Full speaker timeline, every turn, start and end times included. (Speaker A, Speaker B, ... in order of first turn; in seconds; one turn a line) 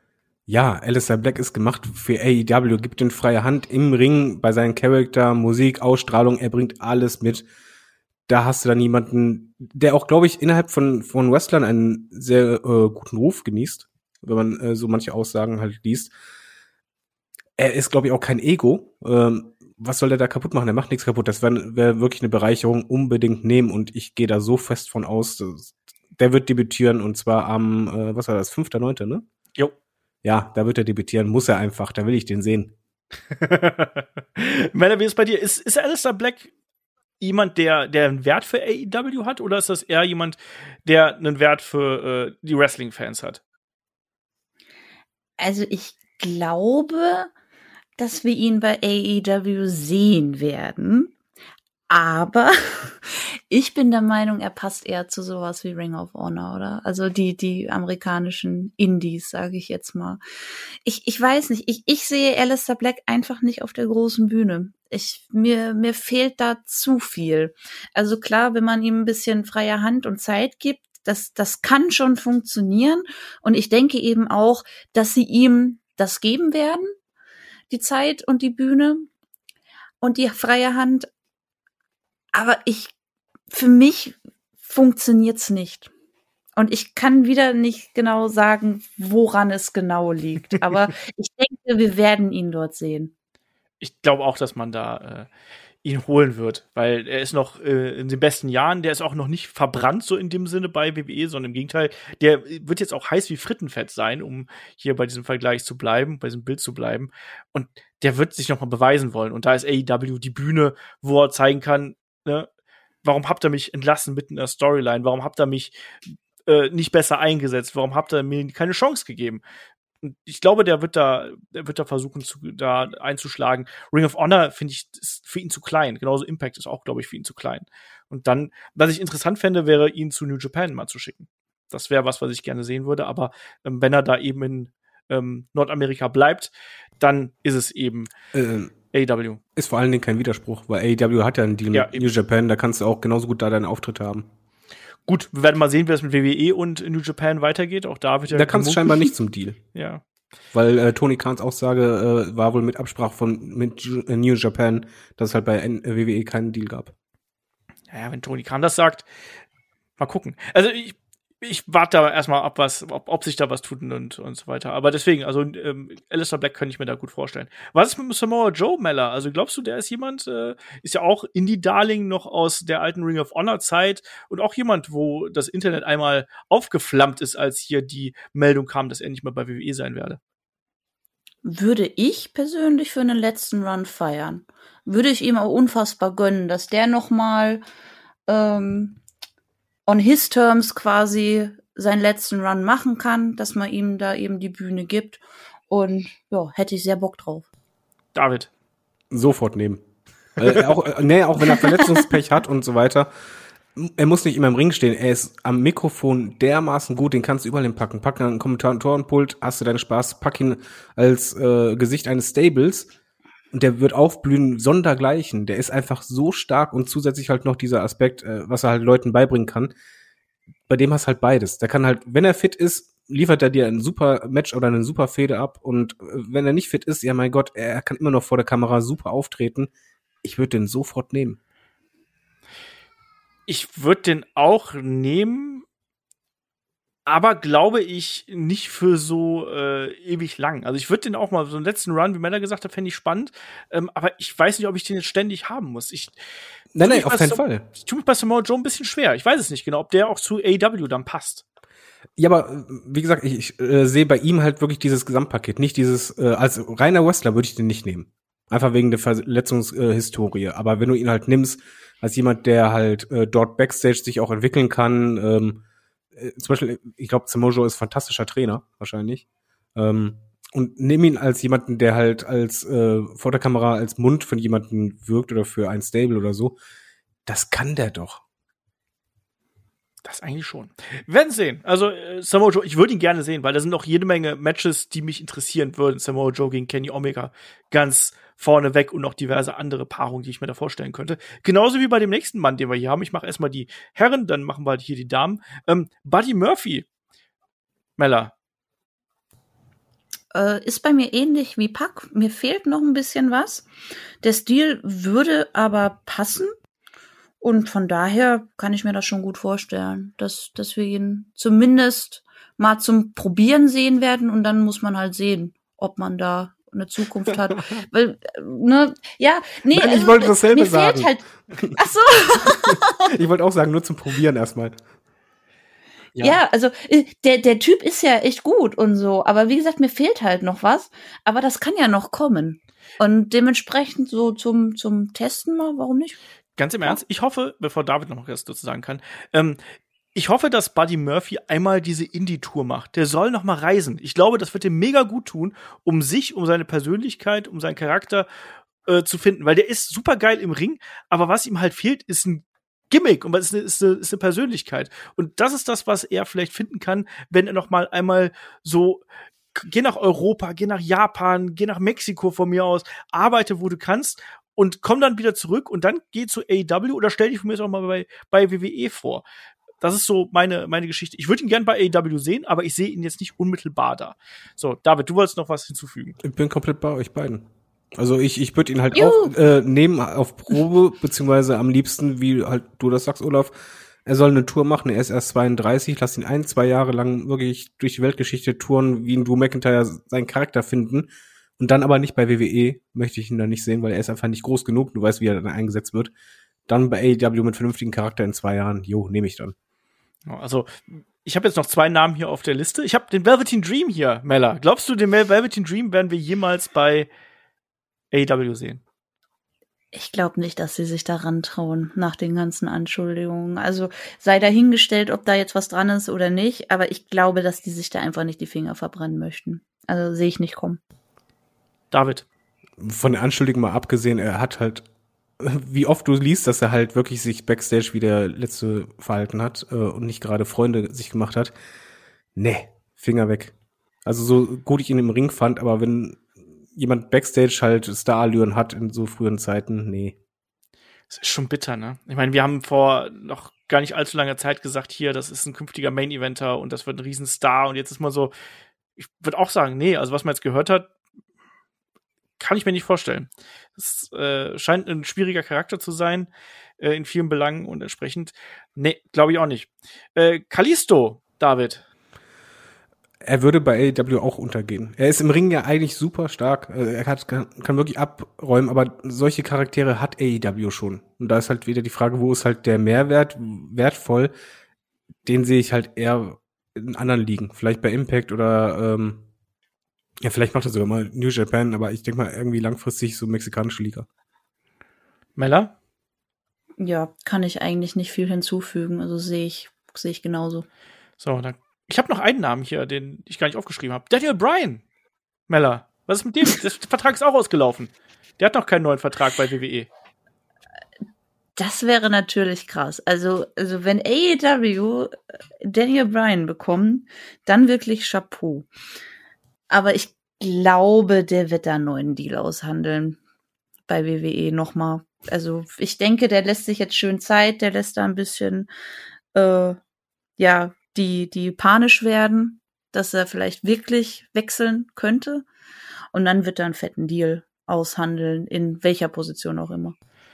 Speaker A: 0.5-7.4
Speaker A: 8.3-16.1
Speaker A: 17.6-29.2
Speaker A: 30.2-32.7
Speaker B: 33.3-36.5
Speaker B: 37.2-43.4
Speaker C: 45.4-47.3
Speaker C: 48.0-51.1
Speaker C: 51.9-60.2
Speaker C: 60.8-76.9
Speaker C: 77.7-79.1
Speaker C: 80.0-81.1
Speaker C: 82.3-82.9
Speaker C: 83.5-85.9
Speaker C: 86.6-93.1
Speaker B: 93.8-95.3
Speaker B: 95.8-112.5
Speaker B: 113.0-115.7
Speaker B: 116.5-119.4
Speaker B: 120.0-138.1
Speaker A: 138.3-138.7
Speaker B: 138.9-139.4
Speaker A: 139.6-144.3
Speaker B: 141.7-142.0
Speaker B: 145.1-149.1
Speaker A: 148.3-149.6
Speaker B: 149.7-150.0
Speaker A: 150.5-156.9
Speaker B: 157.9-159.1
Speaker B: 160.0-180.2
Speaker C: 181.4-187.6
Speaker C: 188.3-189.0
Speaker C: 189.9-197.5
Speaker B: 198.1-198.5
Speaker A: 199.1-199.8
Speaker A: 200.4-203.1
Speaker A: 203.7-212.9
Speaker A: 213.5-219.7
Speaker A: 220.7-229.7
Speaker A: 230.2-231.4
Speaker B: 233.5-235.6
Speaker B: 237.1-246.1
Speaker A: 246.7-247.6
Speaker B: 246.8-251.4
Speaker A: 252.2-265.6
Speaker A: 266.1-276.6
Speaker A: 277.2-278.2
Speaker B: 280.0-296.9
Speaker B: 298.0-298.3
Speaker C: 300.3-303.6
Speaker C: 304.2-306.5
Speaker C: 307.4-323.0
Speaker A: 319.7-321.7
Speaker A: 322.3-324.8
Speaker A: 326.1-326.4
Speaker C: 326.2-336.2
Speaker B: 336.6-339.6
Speaker B: 340.1-348.3
Speaker B: 348.9-359.0
Speaker B: 359.5-369.2
Speaker B: 369.8-376.2
Speaker A: 376.2-377.4
Speaker A: 377.9-383.5
Speaker C: 378.9-379.3
Speaker A: 384.0-396.1
Speaker A: 396.7-399.5
Speaker B: 400.2-407.1
Speaker B: 408.1-408.8
Speaker C: 409.9-420.8
Speaker B: 421.9-422.2
Speaker A: 422.8-424.9
Speaker A: 425.4-431.5
Speaker A: 432.4-433.5
Speaker A: 434.0-440.1
Speaker B: 441.1-448.3
Speaker B: 449.0-450.9
Speaker B: 452.4-456.3
Speaker B: 456.8-461.8
Speaker A: 463.2-474.3
Speaker A: 475.2-479.2
Speaker A: 480.2-484.1
Speaker B: 485.4-485.7
Speaker C: 486.8-490.6
Speaker B: 491.2-494.8
Speaker B: 495.5-499.9
Speaker C: 501.6-508.7
Speaker C: 509.7-513.2
Speaker C: 513.9-518.7
Speaker C: 519.3-519.8
Speaker C: 520.4-525.4
Speaker C: 526.1-529.9